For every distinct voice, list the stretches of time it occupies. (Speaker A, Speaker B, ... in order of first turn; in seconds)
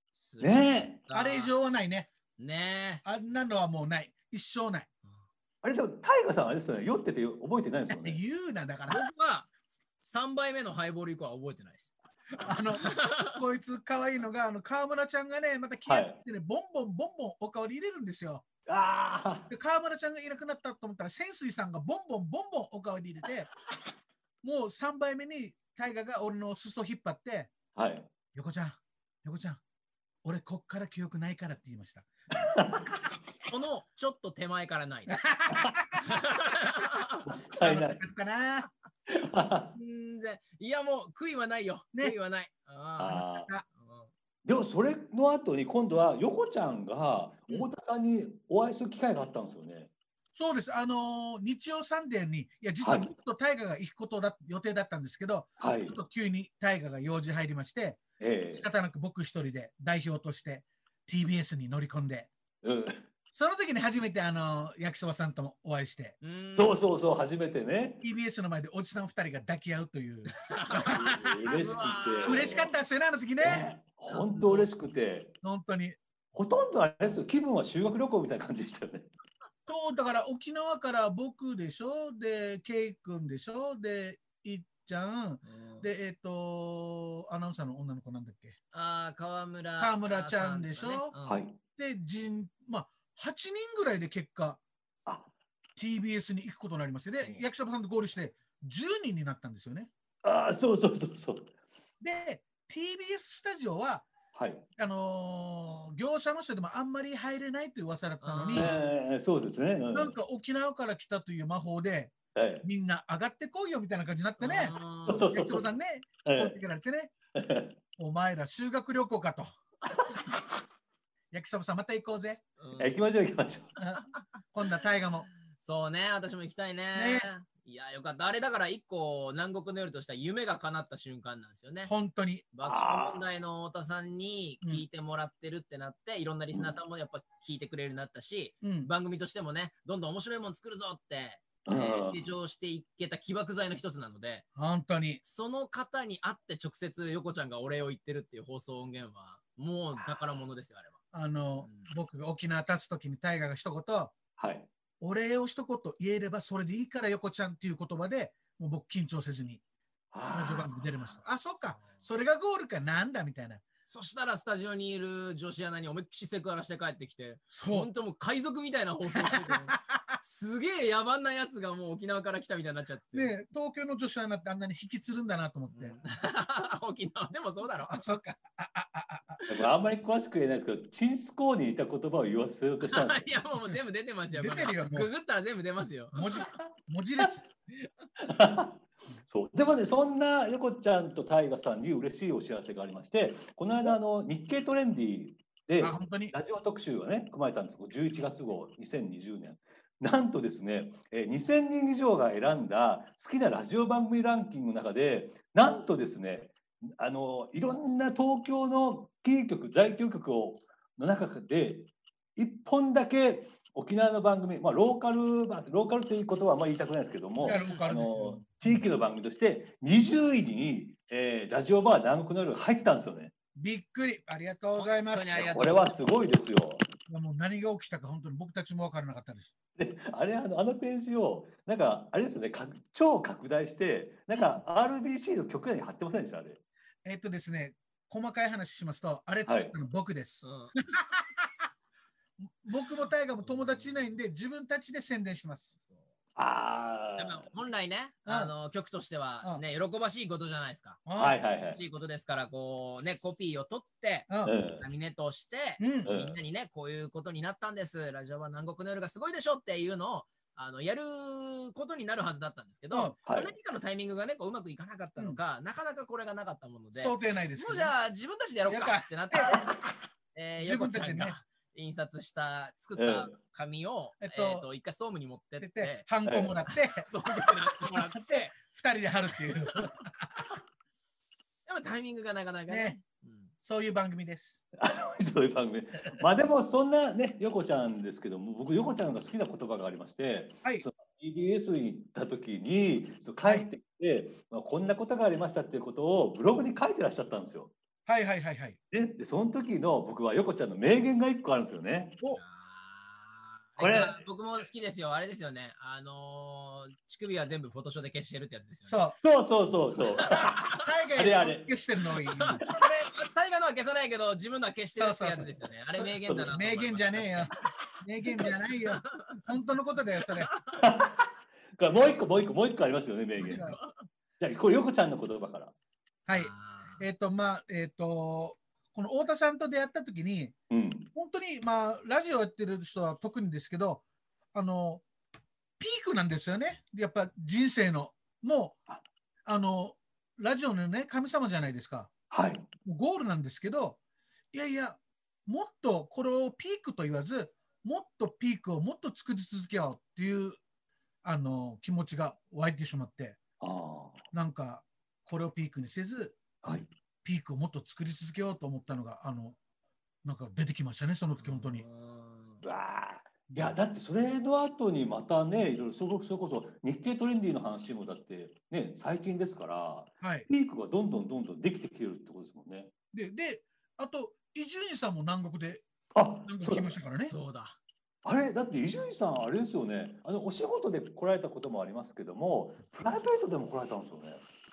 Speaker A: 0.2-1.5, 2.4-3.0, 8.9-11.9, 12.8-13.3, 33.5-35.2, 36.0-37.2, 39.7-44.1, 66.2-66.8, 70.4-72.7, 74.1-74.7, 85.4-85.9, 88.7-91.4, 108.2-108.8, 114.4-115.3, 122.6-122.9, 125.5-131.9, 132.5-144.4, 145.2-151.0, 151.6-151.9, 161.7-162.0, 163.9-173.3, 175.7-178.1, 182.8-186.4, 217.4-217.8, 224.7-225.9, 240.4-240.7, 243.4-243.9, 247.2-251.1, 251.6-269.7, 270.3-276.1, 276.9-278.5, 281.7-283.5, 302.3-309.0, 312.3-317.6, 318.3-319.4, 320.3-320.8, 323.4-324.0, 326.3-327.1, 361.4-362.6, 377.1-377.8
Speaker B: 0.4-1.0, 5.6-8.2, 15.9-16.2, 18.7-19.5, 27.7-28.1, 32.3-33.0, 37.3-38.0, 39.1-39.7, 43.0-43.5, 44.4-49.9, 52.8-53.1, 55.6-56.0, 58.2-58.7, 62.6-63.0, 66.5-68.0, 70.9-72.7, 73.4-75.3, 76.3-79.1, 91.2-91.6, 100.2-101.5, 104.3-104.7, 108.5-110.2, 112.3-112.7, 115.1-115.7, 116.2-116.6, 117.3-117.8, 119.9-120.4, 122.8-123.7, 132.6-133.2, 141.7-142.3, 150.0-150.2, 154.4-154.7, 160.1-160.9, 179.5-183.3, 188.2-223.3, 225.4-226.9, 229.8-236.6, 239.4-239.7, 246.3-247.5, 251.2-251.8, 254.4-254.9, 256.0-256.4, 263.2-263.5, 273.0-273.4, 276.2-276.6, 284.7-297.7, 298.9-302.2, 303.8-304.2, 309.2-311.7, 316.3-316.5, 320.7-323.6, 324.4-325.7, 330.7-331.1, 342.3-342.7, 353.6-354.2, 356.6-356.9, 362.6-372.9, 376.1-377.0, 378.2-384.4
Speaker C: 1.1-2.1, 3.0-4.9, 7.9-9.0, 12.4-18.4, 19.5-23.5, 24.4-27.5, 28.3-29.6, 30.2-32.4, 35.1-36.1, 37.6-38.7, 43.1-43.6, 50.3-62.3, 63.3-66.2, 68.0-71.6, 72.2-73.6, 75.4-76.0, 79.7-88.5, 89.8-91.1, 91.8-94.6, 95.8-99.9, 102.0-104.1, 104.8-108.7, 109.9-114.7, 115.3-117.1, 118.0-119.5, 121.3-122.4, 123.8-125.3, 126.9-127.3, 131.8-132.5, 138.6-138.9, 144.6-145.2, 151.1-154.1, 155.0-159.6, 160.3-163.6, 167.5-167.9, 169.1-170.0, 173.1-176.0, 177.9-179.4, 184.3-185.1, 186.1-187.4, 195.8-196.3, 217.4-218.8, 223.6-225.5, 227.1-229.5, 237.0-241.5, 242.4-245.7, 248.2-248.5, 251.1-251.4, 254.3-254.5, 255.8-256.1, 262.9-263.1, 266.9-267.9, 268.7-269.6, 270.6-271.4, 274.2-274.7, 275.6-277.1, 277.9-280.2, 282.7-283.0, 283.6-284.6, 293.4-293.7, 298.1-298.8, 308.9-309.2, 310.7-312.6, 314.9-320.5, 323.4-323.8, 326.2-330.6, 331.1-334.0, 334.5-335.0, 335.8-338.8, 339.4-342.1, 342.8-344.0, 344.5-350.6, 351.2-353.4, 354.3-356.4, 357.2-359.6, 360.2-361.8, 370.2-370.5, 373.1-375.9, 376.4-377.3